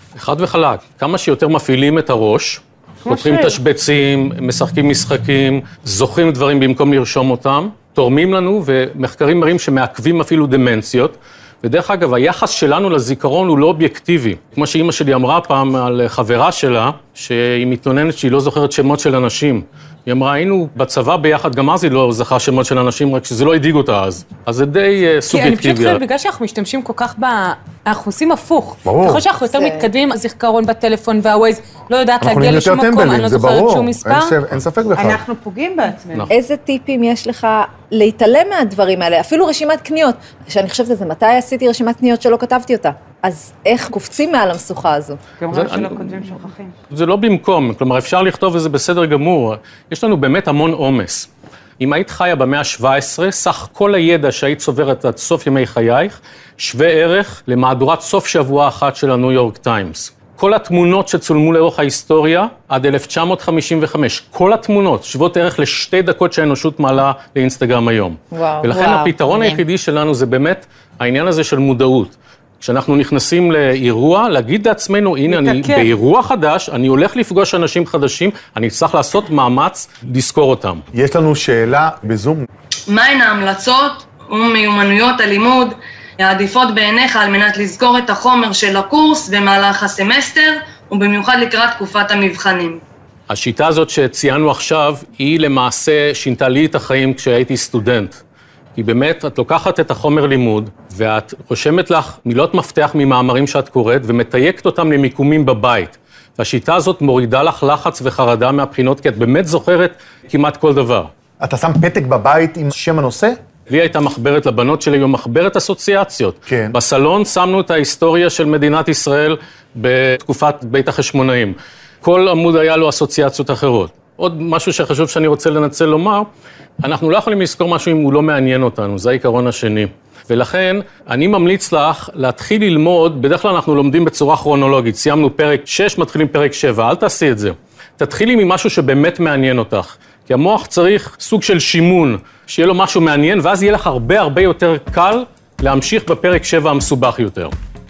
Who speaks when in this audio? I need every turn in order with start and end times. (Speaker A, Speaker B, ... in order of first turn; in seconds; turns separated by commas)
Speaker A: 0.1-26.0, Speaker B: 3.0-3.5, Speaker B: 25.3-34.3, Speaker C: 28.8-29.3, Speaker D: 29.4-29.9, Speaker C: 32.2-35.2, Speaker E: 35.0-36.3, Speaker D: 36.3-45.2, Speaker E: 45.3-46.7, Speaker A: 45.5-46.3, Speaker A: 46.9-80.8, Speaker D: 68.3-69.6, Speaker E: 75.3-75.9, Speaker C: 80.9-82.5, Speaker F: 82.9-92.8, Speaker A: 93.3-98.2, Speaker A: 98.7-111.1, Speaker C: 111.4-113.3, Speaker A: 113.7-126.3, Speaker C: 116.5-116.8, Speaker A: 126.8-147.5